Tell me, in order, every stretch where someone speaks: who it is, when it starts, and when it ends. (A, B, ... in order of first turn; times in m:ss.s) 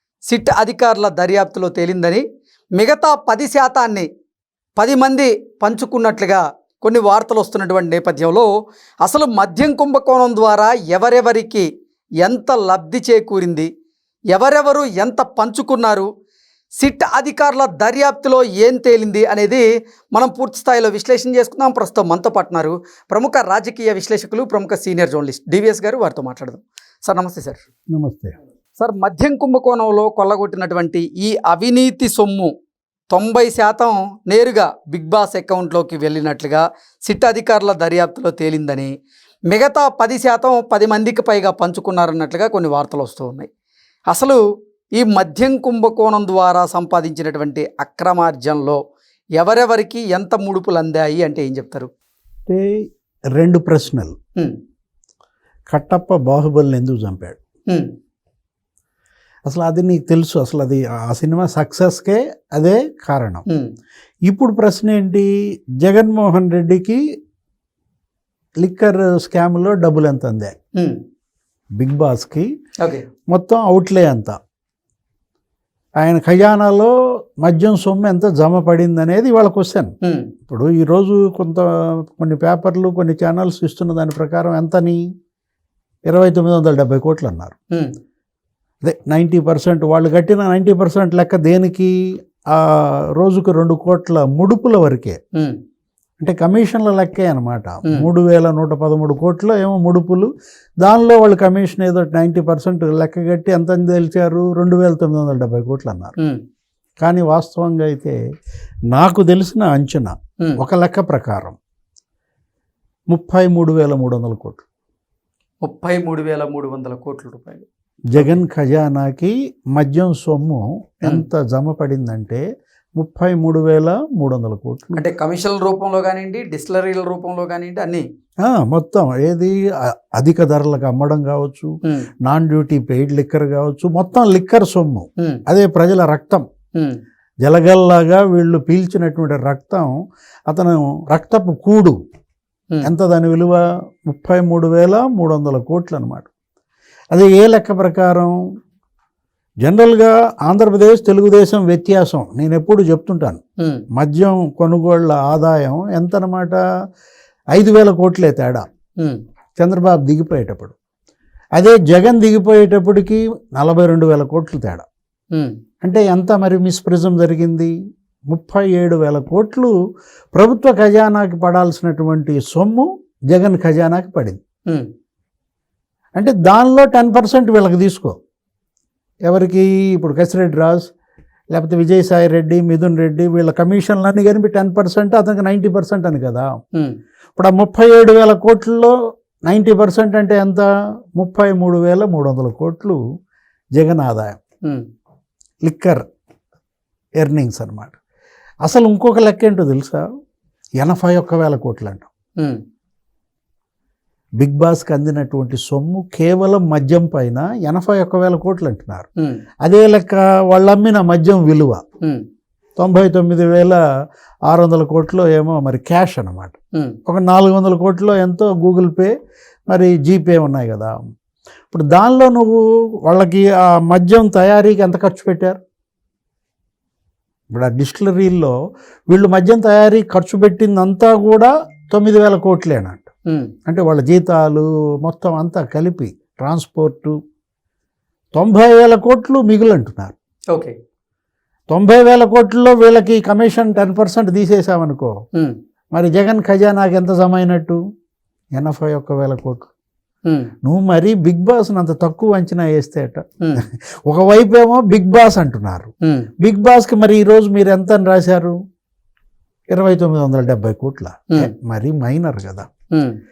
0:00.3-0:02.2 A
0:02.8-0:04.1 A
0:04.8-0:08.5 A
0:09.0-0:11.7 A
0:12.2-0:13.7 A
0:14.3-0:16.1 A
0:16.8-0:27.6 A
0:27.9-0:28.3 B
0:28.8-0:32.5 A
0:33.1-0:38.9 A
0:39.5-0:43.5 A
0:44.1-0:44.4 A
0:45.0-0:48.8 A
0:49.4-0:51.9 A
0:52.5-0:52.8 B
0:53.4-0:54.2 B
0:55.7-0:57.4 B
0:59.4-1:03.4 B
1:04.3-1:05.3 B
1:05.8-1:07.0 B
1:08.6-1:10.5 B
1:11.8-1:12.5 B
1:13.3-1:14.4 B
1:16.0-1:19.9 B
1:20.0-1:20.3 A
1:20.4-1:25.0 B
1:26.1-1:27.5 B
1:28.8-1:31.9 B
1:32.5-1:35.2 B
1:36.2-1:40.3 B
1:40.8-1:46.1 B
1:47.0-1:48.2 B
1:48.9-1:51.6 B
1:53.1-1:54.6 B
1:55.6-1:58.4 A
1:58.1-2:02.4 B
2:03.0-2:05.0 B
2:04.9-2:08.0 A
2:08.4-2:16.4 B
2:17.4-2:19.9 B
2:20.5-2:22.0 B
2:22.8-2:26.3 B
2:27.1-2:28.4 B
2:29.6-2:33.4 B
2:33.9-2:36.6 B
2:37.5-2:38.6 B
2:39.6-2:40.7 B
2:41.6-2:44.8 B
2:45.8-2:47.7 B
2:48.3-2:49.7 B
2:50.3-2:54.4 B
2:56.2-2:58.2 B
2:59.3-3:00.9 B
3:01.5-3:06.5 B
3:07.4-3:08.9 B
3:09.5-3:13.0 B
3:13.8-3:14.4 B
3:15.6-3:16.0 B
3:17.2-3:18.0 B
3:18.6-3:20.0 B
3:20.8-3:22.1 B
3:24.4-3:29.1 B
3:29.6-3:31.8 B
3:32.8-3:33.8 B
3:34.5-3:36.5 B
3:37.0-3:39.1 B
3:39.7-3:40.9 B
3:41.7-3:45.6 B
3:47.5-3:48.5 B
3:49.1-3:53.0 B
3:53.6-3:57.2 B
3:58.3-4:00.1 B
4:01.7-4:05.1 B
4:05.9-4:07.8 B
4:08.6-4:09.7 B
4:10.2-4:10.5 A
4:10.6-4:13.2 B
4:13.4-4:13.6 A
4:14.1-4:15.9 B
4:16.4-4:18.6 B
4:19.7-4:22.7 B